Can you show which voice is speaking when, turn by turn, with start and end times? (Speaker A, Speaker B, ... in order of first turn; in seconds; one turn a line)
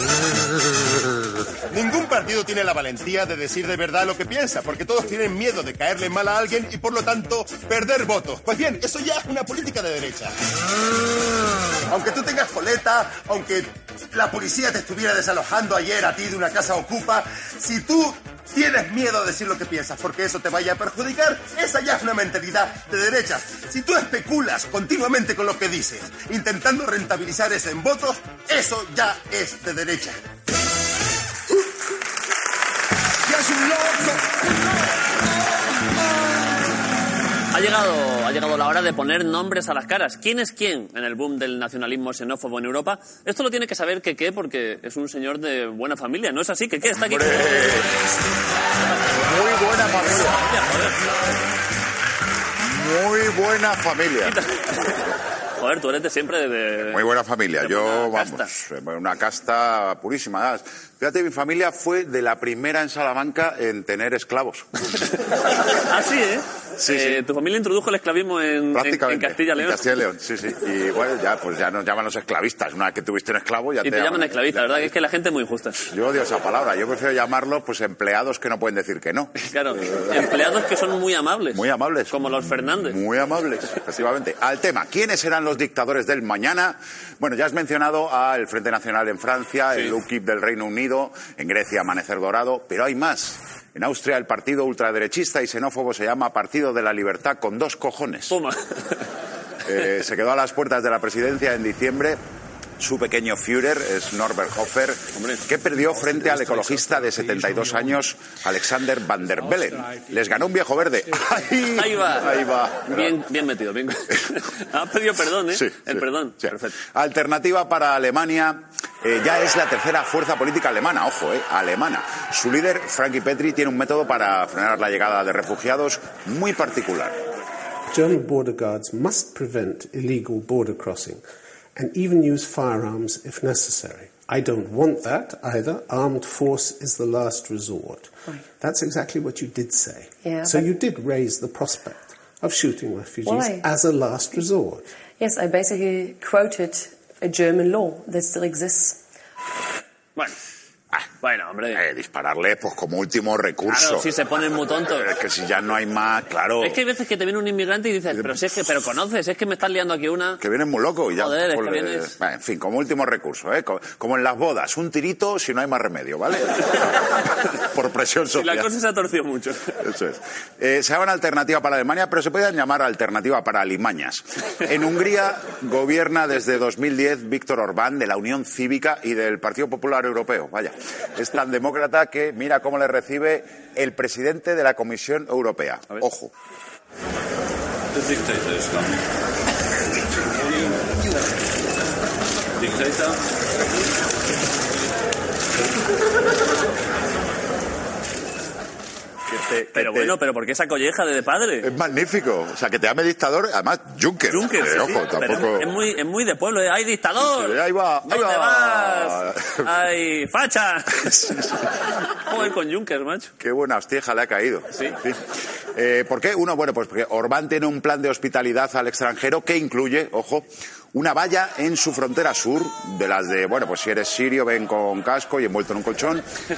Speaker A: 1.7-10.3
Speaker A: 11.9-30.2
Speaker A: 33.4-34.2
Speaker B: 37.5-47.8
Speaker C: 47.0-47.9
Speaker C: 49.1-50.4
Speaker B: 50.0-51.3
Speaker C: 52.6-55.0
Speaker B: 54.2-55.0
Speaker B: 55.6-57.0
Speaker C: 56.8-64.9
Speaker B: 57.6-58.5
Speaker B: 65.9-69.8
Speaker C: 66.8-67.2
Speaker C: 68.7-74.9
Speaker B: 73.8-75.8
Speaker C: 75.8-80.2
Speaker B: 79.4-83.0
Speaker C: 81.5-98.4
Speaker B: 98.3-98.6
Speaker C: 99.6-102.2
Speaker C: 102.8-113.1
Speaker B: 105.2-105.4
Speaker B: 111.8-112.4
Speaker B: 112.9-116.7
Speaker C: 115.5-127.2
Speaker D: 127.9-131.2
Speaker D: 131.8-144.9
Speaker E: 140.2-140.7
Speaker E: 143.2-143.7
Speaker E: 145.2-149.0
Speaker B: 151.2-151.8
Speaker C: 151.7-154.1
Speaker B: 153.7-155.1
Speaker C: 154.9-156.8
Speaker B: 156.6-160.4
Speaker C: 158.1-158.7
Speaker C: 160.4-167.0
Speaker B: 161.2-162.1
Speaker C: 167.5-168.7
Speaker B: 168.3-169.6
Speaker C: 169.8-186.3
Speaker F: 187.9-189.0
Speaker F: 190.3-190.9
Speaker F: 192.6-193.2
Speaker C: 199.3-200.1
Speaker B: 199.7-201.7
Speaker C: 201.6-205.7
Speaker B: 204.3-211.6
Speaker C: 207.2-209.7
Speaker C: 211.0-211.5
Speaker B: 212.2-213.3
Speaker C: 213.4-226.2